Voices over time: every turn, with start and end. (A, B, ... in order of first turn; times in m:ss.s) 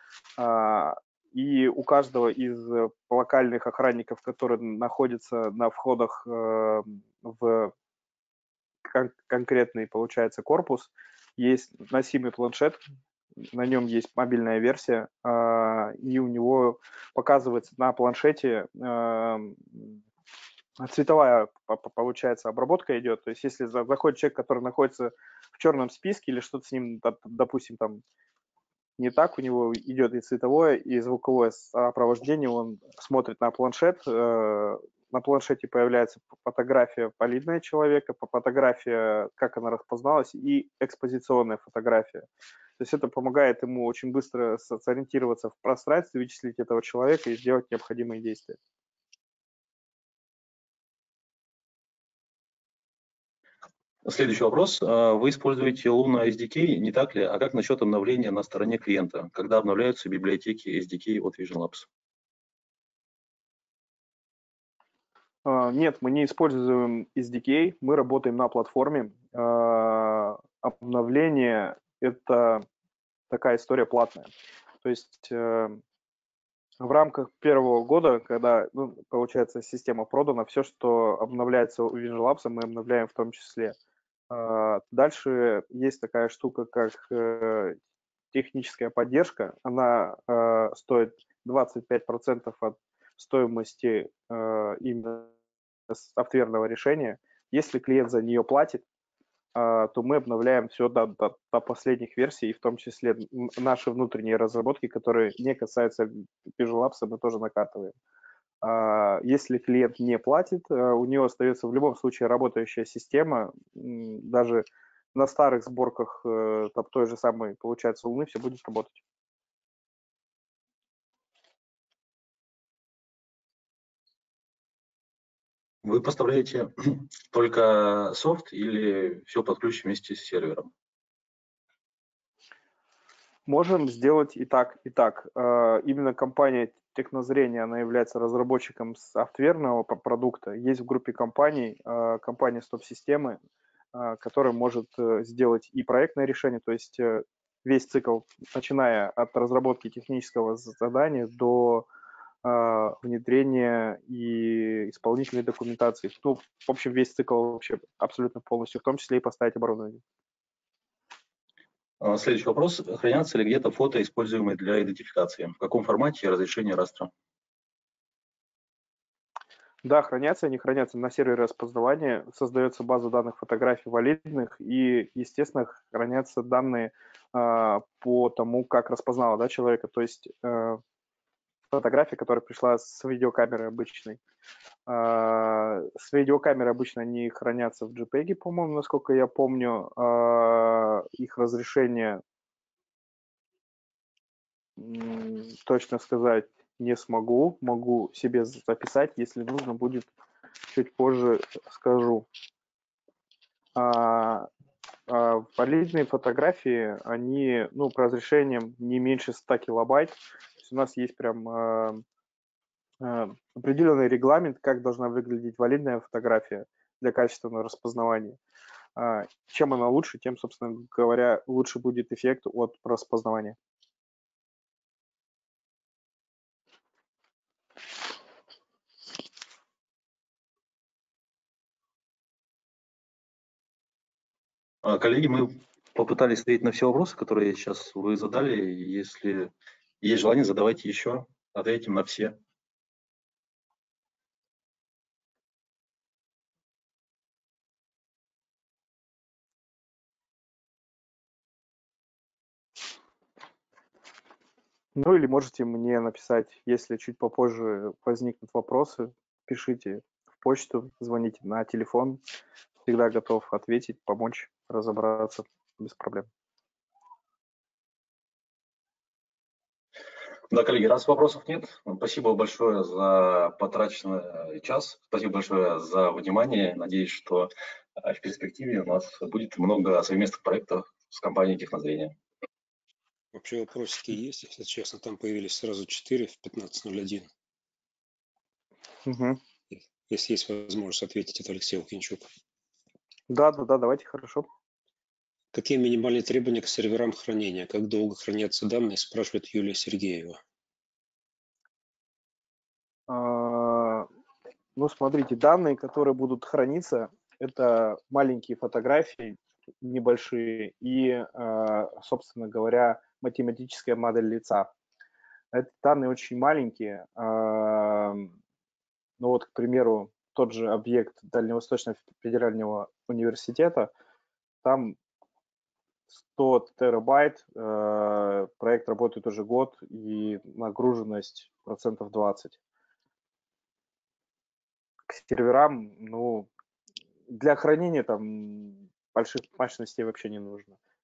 0:00.4-0:07.7 A
0:08.8-0:12.8 A
0:13.5-0:20.0 A
0:20.8-0:28.0 A
0:29.0-0:42.3 A
0:42.8-0:48.6 A
0:54.0-1:01.9 B
1:05.4-1:12.6 A
1:13.3-1:14.3 A
1:14.8-1:15.8 A
1:16.8-1:23.8 A
1:24.3-1:27.8 A
1:28.3-1:35.3 A
1:35.9-1:38.8 A
1:39.6-1:47.9 A
1:48.6-1:59.0 A
2:05.8-2:10.7 B
2:13.5-2:23.4 A
2:23.9-2:31.9 A
2:32.4-2:40.0 A
2:42.0-2:47.1 B
2:49.8-3:00.8 A
3:01.7-3:04.2 A
3:04.9-3:12.2 A
3:14.8-3:20.1 A
3:20.7-3:22.3 A
3:23.8-3:24.5 A
3:25.1-3:32.0 A
3:33.0-3:38.4 A
3:39.0-3:43.6 A
3:54.8-4:02.4 B
4:15.0-4:22.2 A
4:22.9-4:26.3 A
4:30.5-4:42.2 B
4:43.3-4:47.3 C
4:49.0-4:49.4 A
4:49.7-4:52.3 C
4:53.3-4:54.5 A
4:55.5-5:00.4 C
5:03.1-5:04.1 A
5:04.8-5:14.7 A
5:15.5-5:18.3 A
5:19.2-5:23.9 A
5:24.6-5:25.0 A
5:26.2-5:32.6 A
5:35.1-5:36.5 A
5:37.3-5:40.8 A